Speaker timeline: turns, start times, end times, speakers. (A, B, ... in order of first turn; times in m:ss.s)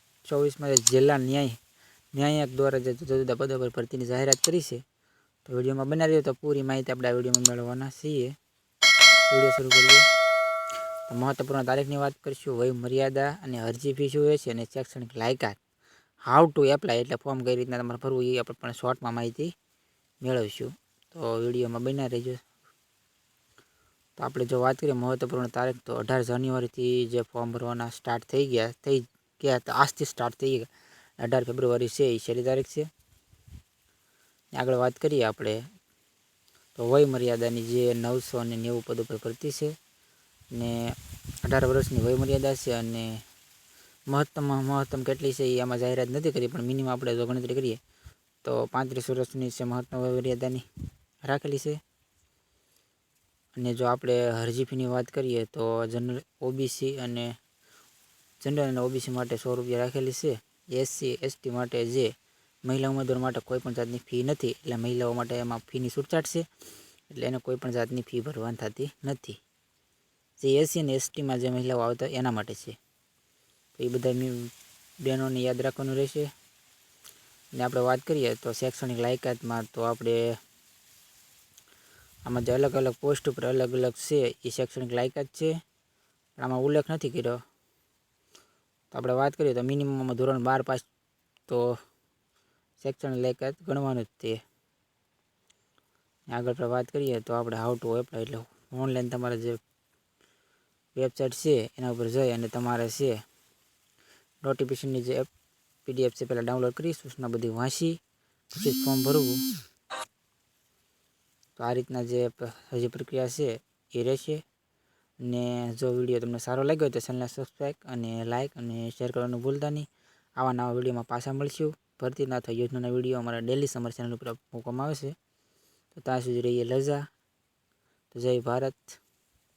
0:00.3-0:01.6 A
0:02.1-0:04.8 A
0:05.4-0:08.3 A
0:09.3-0:10.0 A
0:11.1-0:15.6 A
0:16.3-0:19.5 A
0:20.2-0:22.4 A
0:24.2-0:30.7 A
0:31.2-0:32.9 A
0:34.5-0:35.6 A
0:36.8-0:39.7 A
0:40.5-0:43.2 A
0:44.1-0:47.8 A
0:48.4-0:50.6 A
0:51.3-0:51.8 A
0:53.6-0:57.3 A
0:58.4-1:02.1 A
1:02.6-1:06.4 A
1:07.1-1:09.4 A
1:10.4-1:12.8 A
1:13.8-1:14.5 A
1:15.0-1:16.3 A
1:17.5-1:20.2 A
1:22.2-1:25.5 A
1:26.4-1:27.4 A
1:28.9-1:30.8 A
1:31.5-1:31.7 A
1:32.8-1:34.4 A
1:36.3-1:39.6 A
1:41.0-1:43.1 A
1:44.4-1:45.3 A
1:45.8-1:48.0 A
1:48.5-1:49.4 A
1:51.6-1:54.4 A
1:55.2-2:05.1 A
2:05.9-2:07.0 A
2:08.1-2:09.0 A